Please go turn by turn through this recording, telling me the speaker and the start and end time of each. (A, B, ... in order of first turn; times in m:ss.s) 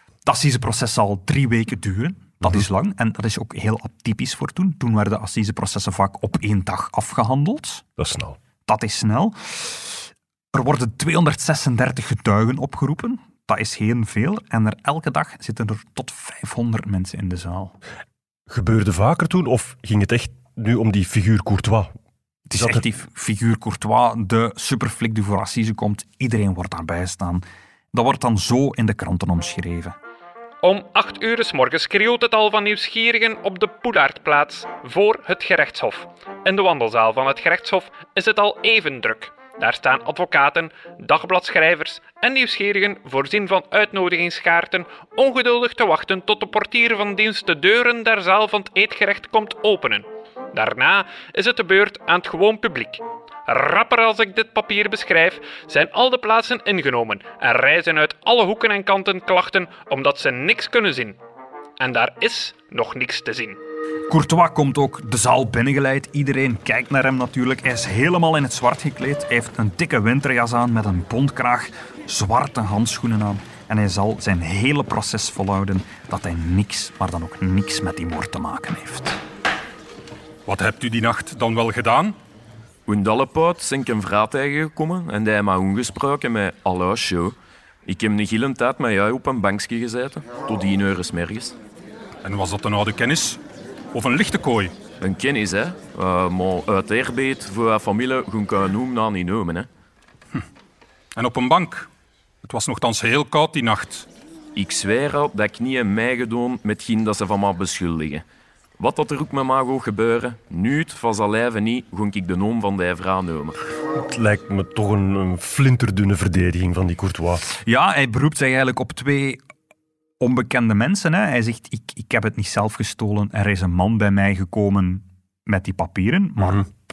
0:00.2-0:07.8 A
0:08.0-0:08.4 B
0:08.7-0:17.8 A
0:18.5-0:21.9 B
0:22.5-0:29.9 A
0:22.5-0:22.8 B
0:30.6-1:01.2 C
1:01.8-1:03.6 C
1:04.1-1:19.2 A
1:20.5-1:22.2 D
1:22.8-1:27.3 E
1:27.8-1:31.6 E
1:32.2-1:33.4 D
1:33.9-1:34.7 D
1:35.0-1:39.7 E
1:41.2-1:41.9 D
1:42.4-1:44.1 D
1:44.5-1:48.2 E
1:48.8-1:53.6 E
1:54.0-1:57.5 B
1:57.6-1:59.4 A
2:00.2-2:06.7 A